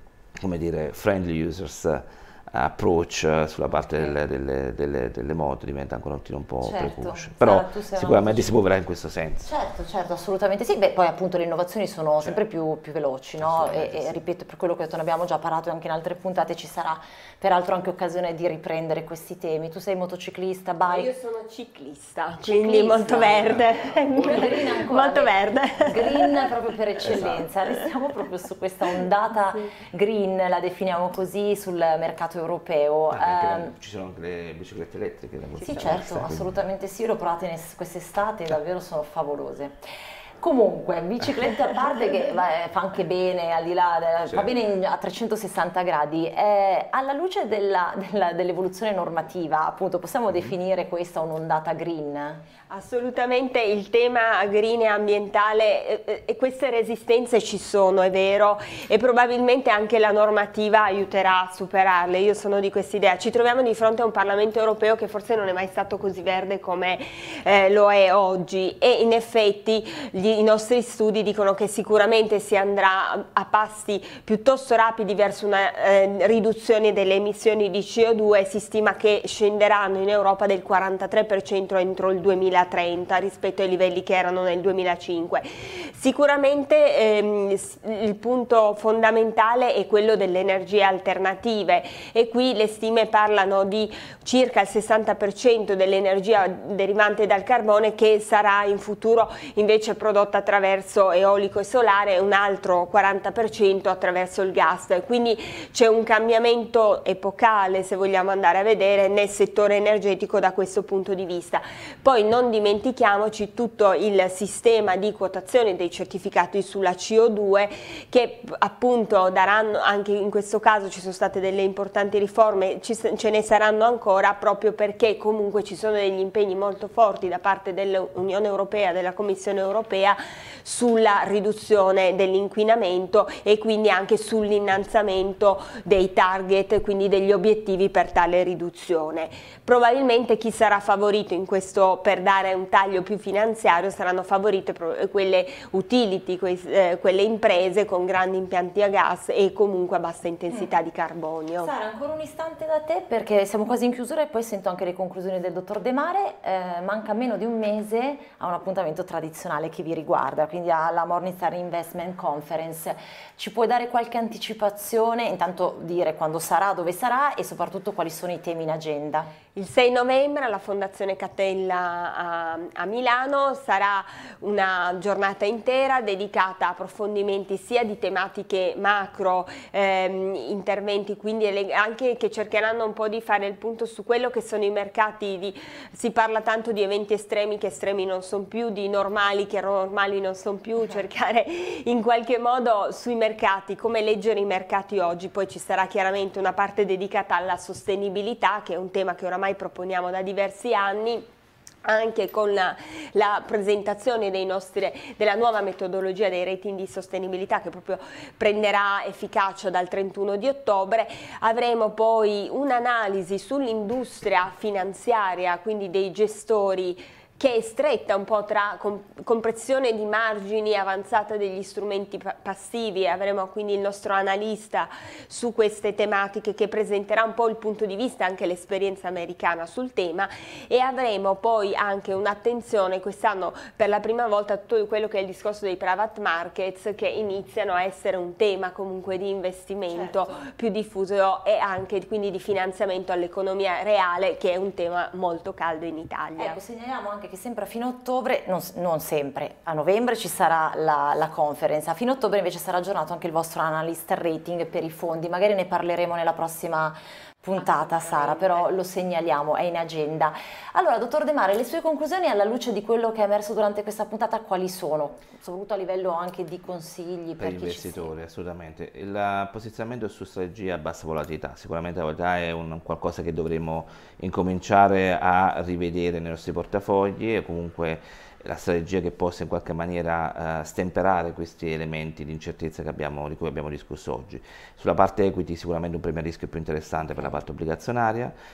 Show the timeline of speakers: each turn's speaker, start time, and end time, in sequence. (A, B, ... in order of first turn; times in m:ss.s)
0:00.4-0:09.5 A
0:06.6-0:08.5 B
0:09.4-0:21.1 B
0:13.4-0:14.2 A
0:20.9-0:26.5 C
0:22.4-0:33.7 B
0:27.1-0:27.4 A
0:33.1-0:36.5 A
0:35.6-0:39.8 B
0:40.4-0:52.4 B
0:52.7-2:31.7 C
2:31.6-2:49.3 B
2:49.6-3:21.3 C
3:21.8-4:06.6 C
3:59.9-4:00.4 B
4:06.4-4:28.1 B
4:17.6-4:18.7 C
4:27.4-4:48.3 A